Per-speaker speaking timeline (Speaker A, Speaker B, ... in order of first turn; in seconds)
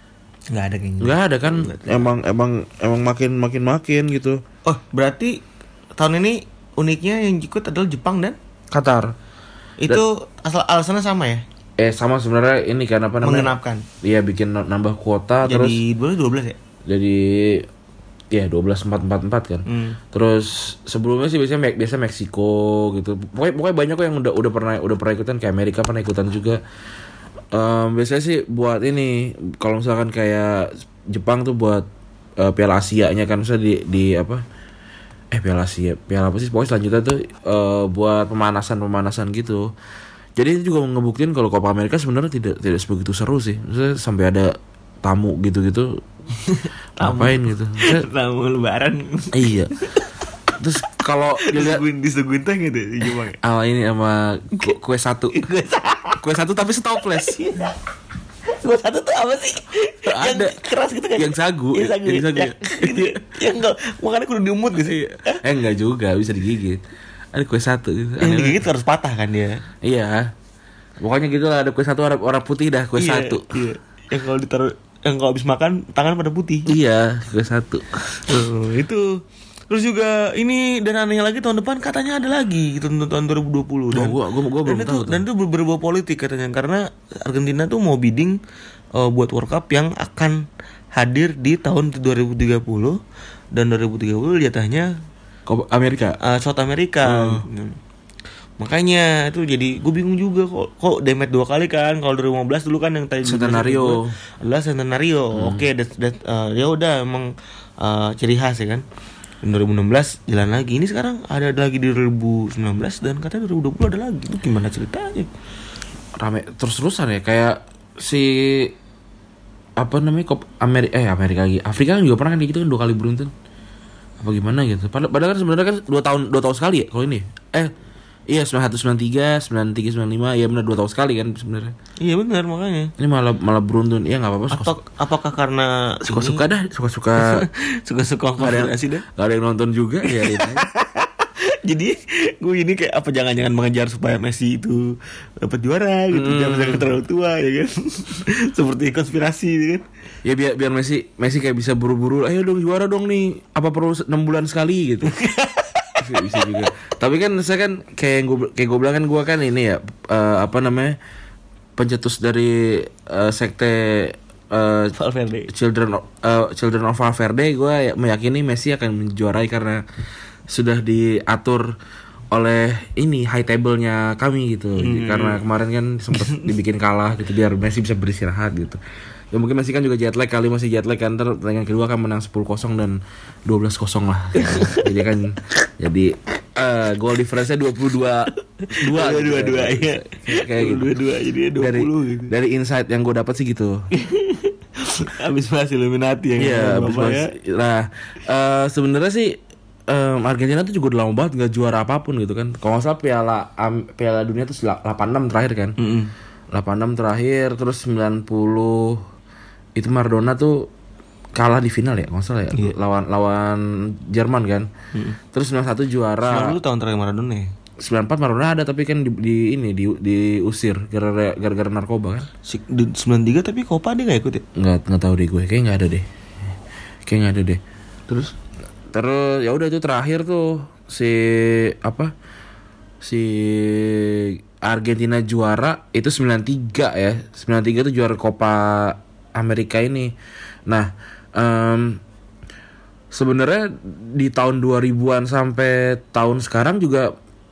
Speaker A: 0.5-2.1, 4.6-5.4, 6.0-8.4, 9.8-11.4, 13.2-13.8, 15.4-16.6, 19.6-20.0, 46.4-50.1, 51.4-53.4, 55.3-56.2, 57.0-57.8, 58.5-65.4, 68.2-69.6, 73.0-76.7, 78.2-88.4, 88.9-93.0, 93.5-95.0, 96.2-97.8, 98.6-108.8, 109.4-115.3, 132.0-132.9, 134.5-136.4, 137.2-139.0, 140.0-149.8, 155.1-156.7, 164.9-165.5, 174.8-175.4, 184.3-184.9, 188.6-192.3, 193.9-197.3, 205.8-206.1, 216.2-217.5, 222.4-224.4, 228.1-228.3
Speaker B: 1.0-4.4, 8.7-9.1, 11.8-15.8, 16.9-17.7, 18.3-26.6, 27.5-31.9, 32.4-34.4, 35.3-39.7, 40.4-46.0, 47.0-48.0, 49.3-49.7, 50.6-51.8, 53.4-55.4, 56.2-57.4, 60.0-60.6, 61.1-63.2, 64.8-66.8, 67.3-68.6, 69.8-70.3, 71.0-73.5, 76.7-78.3, 83.9-85.2, 95.5-96.2, 97.0-97.5, 103.2-104.1, 105.3-105.6, 116.2-118.7, 119.8-123.3, 124.2-127.7, 128.3-131.7, 133.0-134.8, 136.1-137.4, 138.4-140.7, 146.1-146.9, 150.2-155.1, 156.0-161.0, 161.8-164.9, 165.5-169.8, 170.5-171.7, 172.3-178.8, 179.3-190.9, 191.6-193.8, 196.4-205.7, 206.5-209.0, 209.8-210.7, 211.3-214.7, 215.3-216.6, 217.8-222.3, 224.6-226.1, 227.1-227.6, 228.9-232.1, 233.0-240.1, 240.7-242.0, 243.1-247.1